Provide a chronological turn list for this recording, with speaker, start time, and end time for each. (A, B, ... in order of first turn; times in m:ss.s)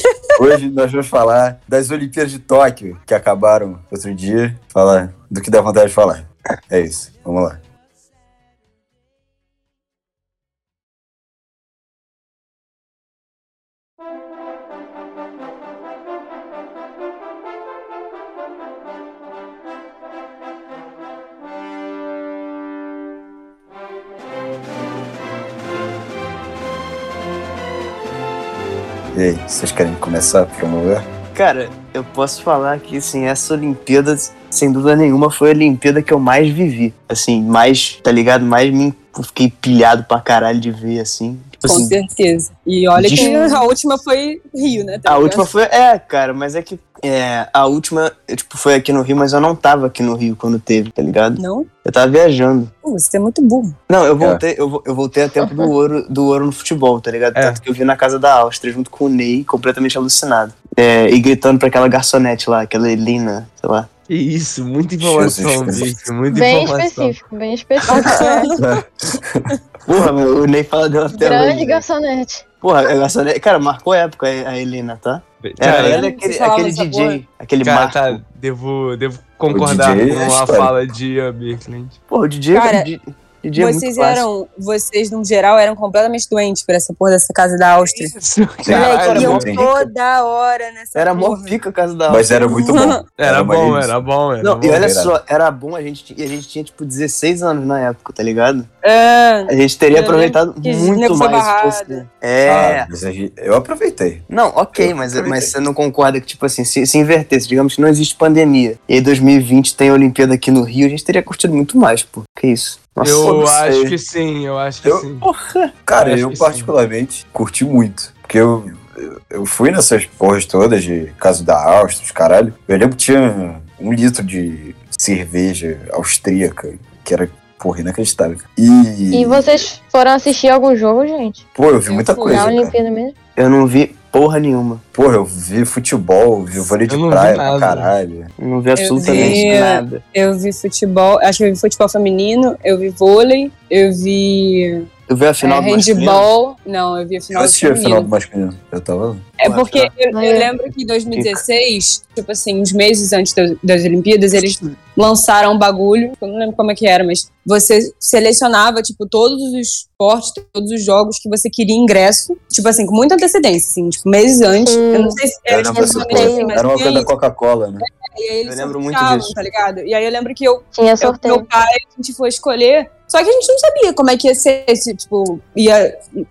0:00.4-0:07.6 A
0:29.1-0:31.0 A
0:31.3-0:42.0 B
0:41.6-0:45.5 C
0:43.2-0:43.7 D
0:45.0-0:52.7 B
0:51.4-0:51.7 C
0:52.8-0:53.8 C
0:53.9-1:03.9 B
0:57.3-0:57.6 E
1:04.1-1:07.2 E
1:05.0-1:05.9 A
1:06.3-1:08.5 D
1:07.9-1:08.6 C
1:08.6-1:09.5 A
1:09.8-1:11.8 B
1:11.2-1:12.4 D
1:12.6-1:18.2 B
1:15.4-1:16.0 E
1:15.7-1:17.2 C
1:17.6-1:22.0 E
1:19.5-1:20.8 A
1:22.1-1:24.2 B
1:22.5-1:22.9 C
1:23.6-1:28.1 C
1:27.9-1:29.6 E
1:28.6-1:29.6 A
1:28.7-1:31.6 C
1:28.9-1:29.4 B
1:30.9-1:32.7 B
1:32.1-1:34.0 A
1:32.5-1:33.0 C
1:33.2-1:34.9 E
1:34.4-1:38.7 B
1:34.6-1:35.2 A
1:38.8-1:42.0 C
1:39.5-1:42.9 B
1:42.5-1:44.2 A
1:44.3-1:53.9 B
1:44.7-1:45.5 A
1:53.0-1:55.3 E
1:55.2-1:55.7 B
1:55.9-2:09.5 A
1:56.0-1:56.7 E
2:09.1-2:11.4 D
2:11.5-2:12.8 A
2:11.8-2:12.5 C
2:12.2-2:13.1 D
2:13.4-2:14.8 B
2:14.9-2:18.3 A
2:16.8-2:17.9 E
2:18.4-2:20.0 B
2:18.8-2:24.8 C
2:19.1-2:19.5 A
2:25.1-2:26.3 B
2:25.4-2:28.1 C
2:27.3-2:29.3 A
2:29.4-2:47.1 C
2:29.4-2:29.9 B
2:30.1-2:30.5 D
2:44.6-2:45.2 D
2:45.5-2:47.8 A
2:45.7-2:46.6 D
2:47.8-2:55.9 C
2:48.4-2:49.3 B
2:50.7-2:51.4 D